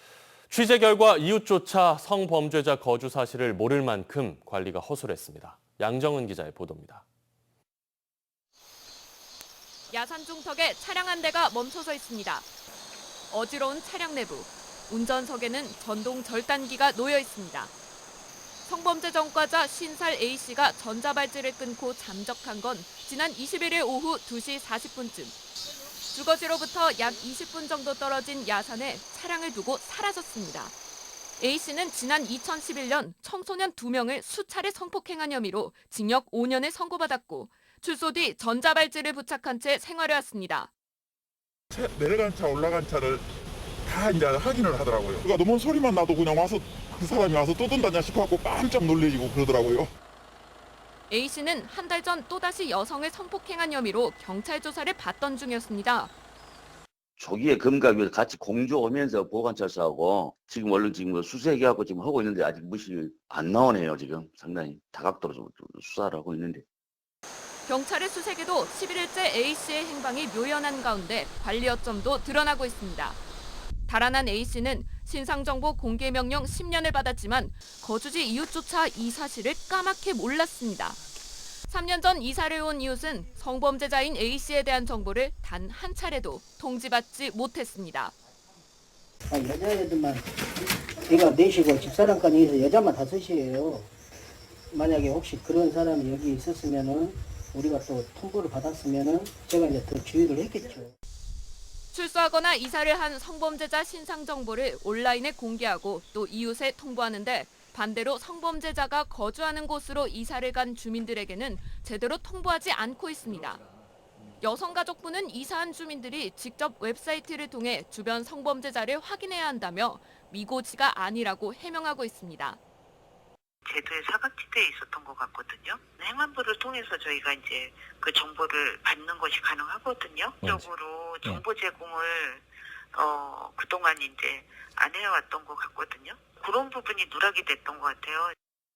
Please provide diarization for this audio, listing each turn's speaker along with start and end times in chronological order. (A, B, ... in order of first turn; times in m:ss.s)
0:00.5-0:07.0 A
0:09.9-0:12.5 B
0:13.3-0:17.7 B
0:18.7-0:25.4 B
0:26.1-0:30.8 B
0:31.4-0:40.7 B
0:41.7-0:43.2 C
0:43.9-0:49.9 C
0:51.1-0:56.1 B
0:57.2-1:06.6 D
1:07.7-1:13.2 B
1:13.9-1:21.0 B
1:21.7-1:28.1 B
1:29.3-1:30.3 E
1:31.0-1:33.9 E
1:34.7-1:40.9 E
1:41.9-1:53.6 B
1:54.4-2:02.6 B
2:03.6-2:18.3 F